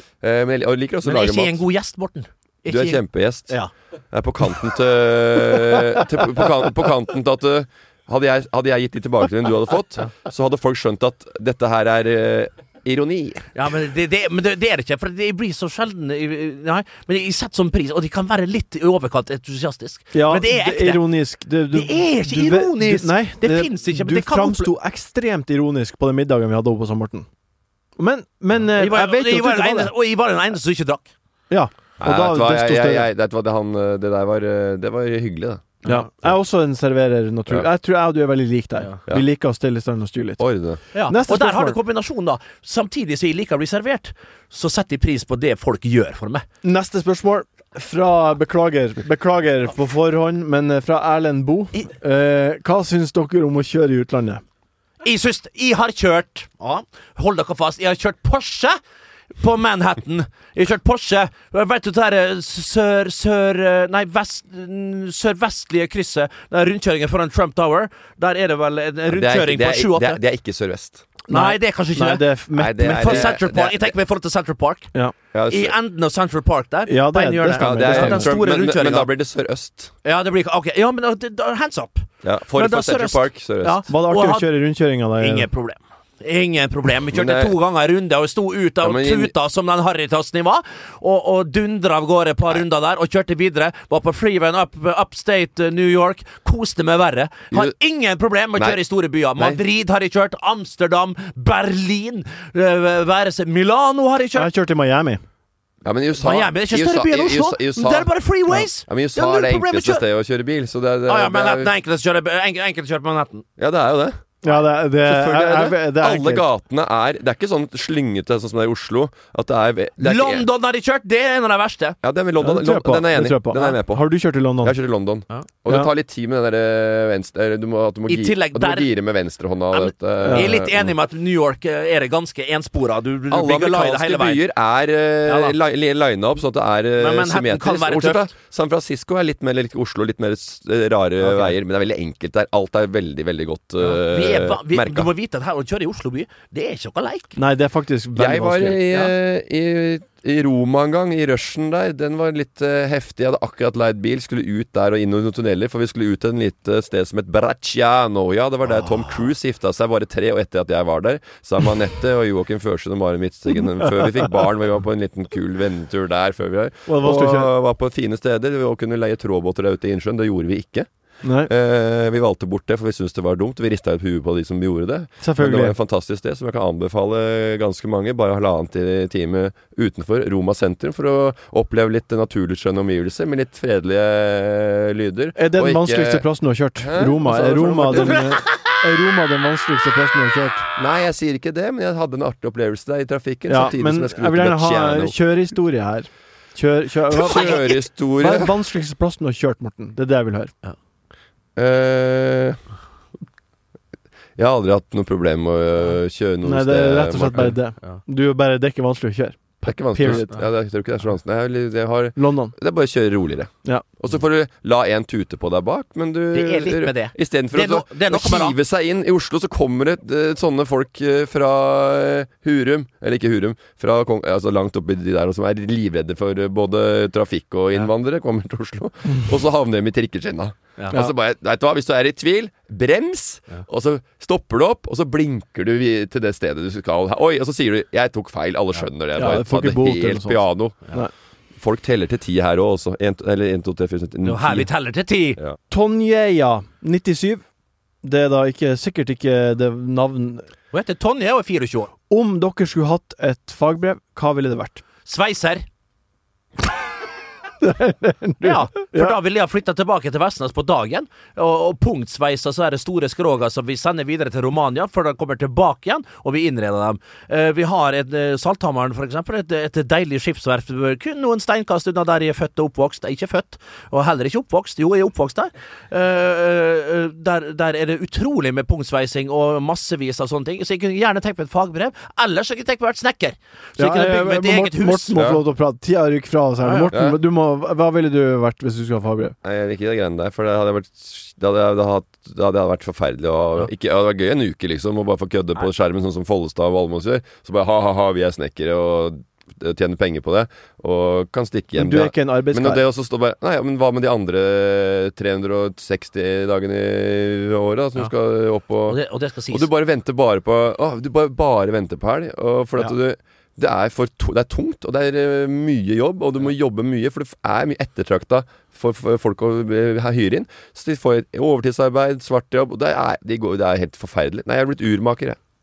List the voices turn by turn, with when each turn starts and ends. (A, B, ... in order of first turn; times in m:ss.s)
0:00.2-0:01.6 A
0:01.0-0:03.7 B
0:02.7-0:03.6 A
0:04.1-0:13.5 A
0:13.5-0:21.0 B
0:20.1-0:27.3 C
0:21.7-0:24.7 B
0:28.0-0:29.9 C
0:28.8-0:31.1 B
0:31.5-0:33.1 C
0:32.0-0:36.3 A
0:35.8-0:41.8 C
0:40.4-0:40.8 A
0:40.9-0:46.4 B
0:46.6-0:54.4 C
0:55.0-0:58.8 B
0:59.4-1:10.2 B
1:09.1-1:11.1 A
1:11.3-1:13.4 C
1:11.3-1:14.9 B
1:12.6-1:13.9 A
1:15.3-1:15.7 A
1:15.5-1:19.1 B
1:16.9-1:18.4 C
1:17.6-1:19.9 A
1:20.0-1:24.5 B
1:22.2-1:23.8 A
1:23.8-1:25.5 C
1:25.2-1:44.5 B
1:27.1-1:27.5 A
1:28.8-1:29.3 A
1:44.3-1:45.2 C
1:45.8-1:48.1 A
1:46.2-1:50.0 B
1:48.8-1:51.7 A
1:51.0-1:53.4 B
1:53.6-1:54.2 A
1:54.4-1:56.5 C
1:55.0-2:00.4 A
2:00.0-2:02.0 B
2:02.0-2:04.0 A
2:02.4-2:04.7 C
2:04.6-2:10.9 A
2:08.1-2:08.9 B
2:09.7-2:14.4 B
2:10.2-2:10.5 C
2:13.3-2:25.1 A
2:15.2-2:15.6 B
2:17.0-2:18.3 B
2:21.2-2:21.6 B
2:23.8-2:27.4 B
2:27.4-2:28.8 C
2:28.2-2:50.9 A
2:38.7-2:39.3 B
2:46.9-2:47.5 C
2:51.2-2:51.5 C
2:51.5-3:06.2 A
2:55.2-2:55.7 C
3:05.4-3:10.7 C
3:06.8-3:08.4 A
3:07.9-3:08.5 B
3:10.8-3:15.1 A
3:13.5-3:20.5 C
3:17.2-3:18.5 A
3:17.4-3:17.7 B
3:21.6-3:22.6 A
3:24.4-3:27.6 A
3:26.4-3:30.4 C
3:29.6-4:00.8 A
3:32.2-3:32.5 C
3:36.3-3:38.6 B
3:58.7-3:59.4 B
3:59.2-4:01.1 C
4:01.6-4:04.7 A
4:04.2-4:05.4 B
4:05.7-4:07.4 C
4:08.0-4:10.5 C
4:10.7-4:11.9 B
4:12.1-4:14.8 C
4:15.0-4:15.6 B
4:17.6-4:19.1 C
4:18.4-4:45.1 B
4:43.8-4:49.3 C
4:45.1-4:45.4 A
4:46.6-4:46.9 B
4:46.9-4:47.2 A
4:49.4-5:09.0 A
5:01.8-5:02.8 C
5:08.9-5:09.7 B
5:09.5-5:25.4 A